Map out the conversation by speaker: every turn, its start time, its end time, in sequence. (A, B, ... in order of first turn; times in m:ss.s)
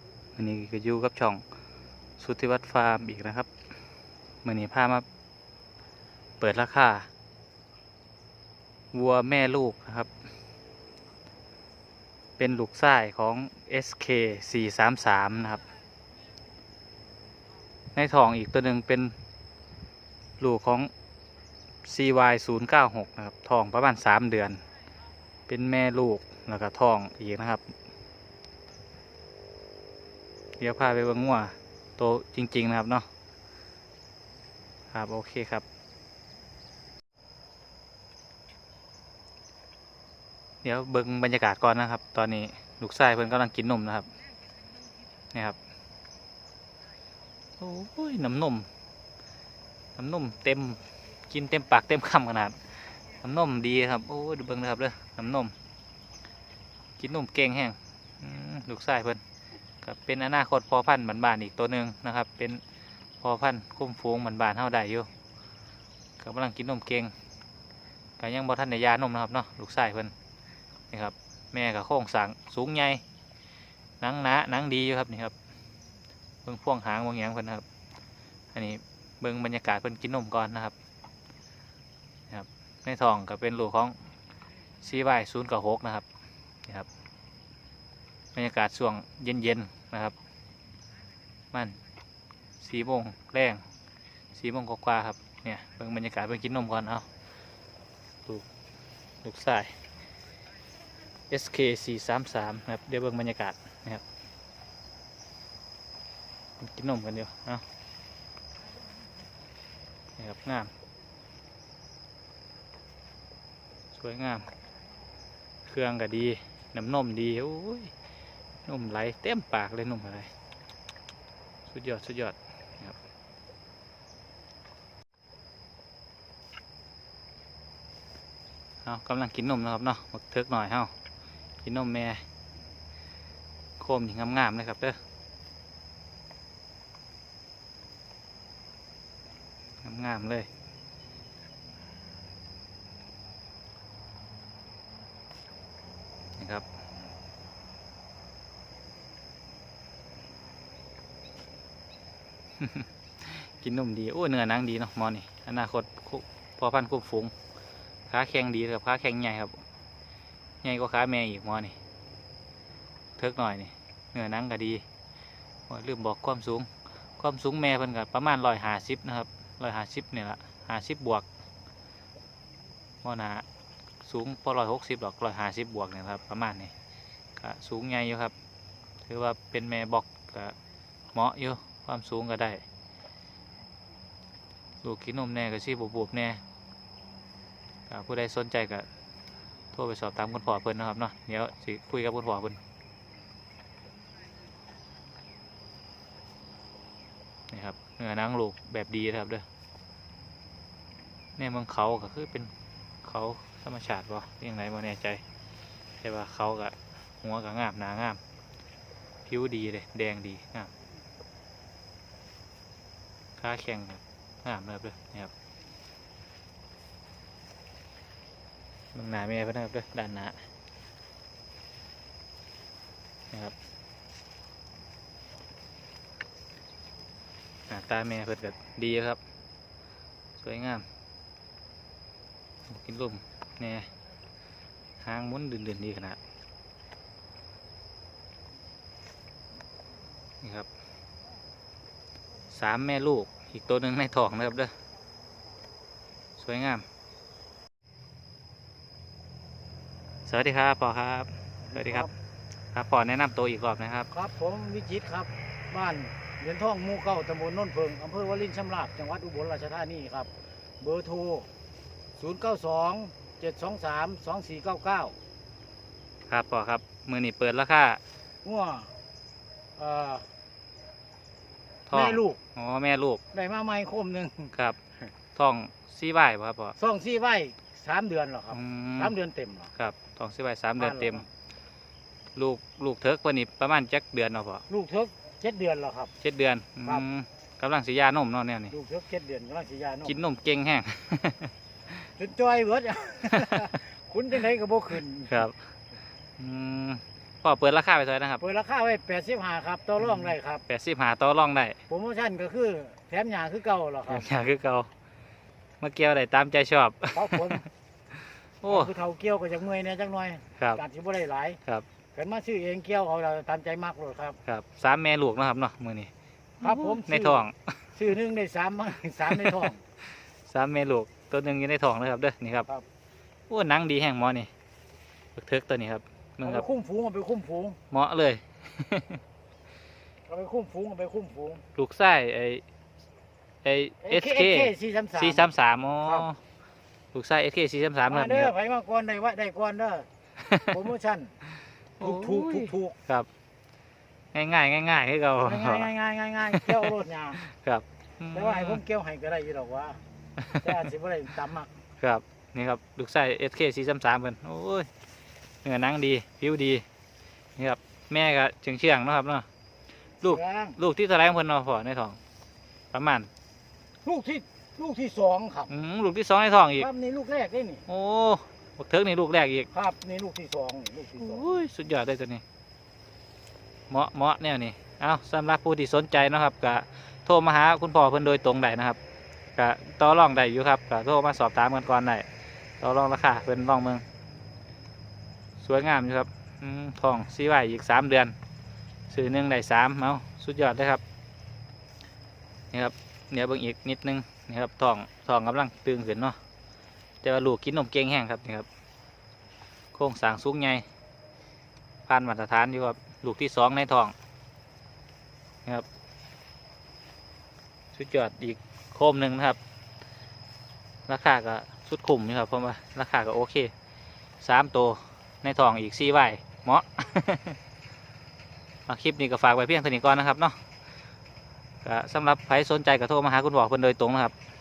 0:00.4-0:01.4 A
0:02.2-0:03.5 A
0:04.4-0:05.0 A
0:06.4-0:07.1 A
0:08.9-0:10.1 A
0:12.4-0:15.6 A
0:17.9-0:19.1 A
0:20.4-0:20.9 A
0:21.8-0:24.6 A
0:25.5-0:27.6 A
0:30.6-0:33.1 A
0:34.9-0:35.6 A
0:40.6-0:44.1 A
0:47.6-0:48.7 A
0:50.0-0:55.5 A
0:57.0-0:59.2 A
0:59.8-1:02.6 A
1:03.2-1:05.1 A
1:06.2-1:07.1 A
1:08.2-1:10.1 A
1:10.9-1:13.0 A
1:14.0-1:15.3 A
1:16.4-1:17.6 A
1:18.5-1:20.7 A
1:22.3-1:24.0 A
1:24.8-1:26.0 A
1:28.3-1:30.1 A
1:31.5-1:31.8 A
1:32.6-1:33.6 A
1:34.3-1:37.0 A
1:39.2-1:39.7 A
1:41.3-1:44.0 A
1:46.6-1:47.6 A
1:50.2-1:50.7 A
1:53.9-1:54.5 A
1:55.6-1:57.9 A
1:58.6-2:00.3 A
2:01.7-2:03.0 A
2:08.8-2:10.9 A
2:11.6-2:12.2 A
2:13.8-2:15.0 A
2:19.8-2:20.5 A
2:26.4-2:26.6 A
2:32.6-2:37.3 A
2:38.1-2:39.6 A
2:40.6-2:41.8 A
2:43.2-2:44.8 A
2:45.7-2:51.2 A
2:53.0-2:53.4 A
2:54.0-2:56.7 A
2:57.4-2:58.3 A
2:59.0-3:00.6 A
3:01.1-3:02.6 A
3:04.8-3:06.4 A
3:07.9-3:08.9 A
3:09.7-3:12.6 A
3:17.5-3:19.4 A
3:21.4-3:22.5 A
3:23.0-3:25.2 A
3:26.0-3:28.2 A
3:29.2-3:30.7 A
3:33.4-3:35.3 A
3:38.9-3:40.4 A
3:47.7-3:49.2 A
3:50.4-3:50.8 A
3:52.7-3:53.9 A
3:55.0-3:56.2 A
4:00.4-4:00.7 A
4:02.5-4:04.7 A
4:06.4-4:06.8 A
4:10.2-4:12.1 A
4:11.7-4:12.1 B
4:12.7-4:14.1 A
4:14.1-4:20.3 B
4:20.8-4:21.5 B
4:22.2-4:25.1 B
4:26.3-4:28.0 A
4:28.4-4:28.9 B
4:29.8-4:30.3 B
4:31.9-4:33.2 A
4:31.9-4:32.4 B
4:33.3-4:34.5 B
4:35.3-4:36.8 A
4:36.8-4:39.7 B
4:38.5-4:39.1 A
4:39.8-4:41.2 A
4:40.8-4:41.2 B
4:42.4-4:44.6 A
4:44.7-4:46.1 B
4:46.2-4:48.7 A
4:48.7-4:50.2 B
4:50.0-4:51.5 A
4:52.0-4:55.5 B
4:55.3-4:55.6 A
4:56.4-4:58.4 A
4:58.4-5:00.6 B
5:00.0-5:01.8 A
5:01.9-5:04.2 B
5:04.1-5:04.9 A
5:05.8-5:07.6 A
5:07.1-5:07.6 B
5:08.6-5:08.9 A
5:08.6-5:11.6 B
5:12.1-5:14.4 B
5:14.4-5:16.1 A
5:16.6-5:17.7 A
5:16.6-5:19.8 B
5:19.3-5:19.7 A
5:20.4-5:22.7 A
5:23.5-5:24.5 A
5:25.4-5:26.6 A
5:26.4-5:27.8 B
5:27.9-5:29.2 A
5:30.3-5:31.6 B
5:31.7-5:32.6 A
5:33.6-5:36.4 A
5:34.0-5:35.5 B
5:37.1-5:38.5 A
5:38.1-5:40.1 B
5:40.5-5:40.8 A
5:40.6-5:41.3 B
5:42.0-5:43.3 A
5:42.0-5:43.0 B
5:44.3-5:45.9 A
5:45.4-5:47.4 B
5:46.5-5:48.8 A
5:48.3-5:50.0 B
5:50.6-5:51.7 B
5:52.0-5:54.9 A
5:55.6-5:56.8 A
5:57.6-5:59.4 A
6:00.2-6:02.2 A
6:00.2-6:00.8 B
6:02.9-6:03.3 A
6:04.0-6:05.7 B
6:05.7-6:06.9 A
6:06.8-6:07.8 B
6:07.9-6:09.7 A
6:09.7-6:11.5 B
6:11.2-6:12.4 A
6:13.9-6:19.0 A
6:19.6-6:22.3 A
6:22.8-6:24.0 A
6:25.6-6:28.3 A
6:29.1-6:31.0 A
6:32.7-6:36.4 A
6:37.2-6:38.6 A
6:39.9-6:40.8 A
6:42.1-6:44.1 A
6:47.9-6:49.6 A
6:51.1-6:53.7 A
6:54.4-6:57.6 A
6:58.9-7:00.6 A
7:01.8-7:04.3 A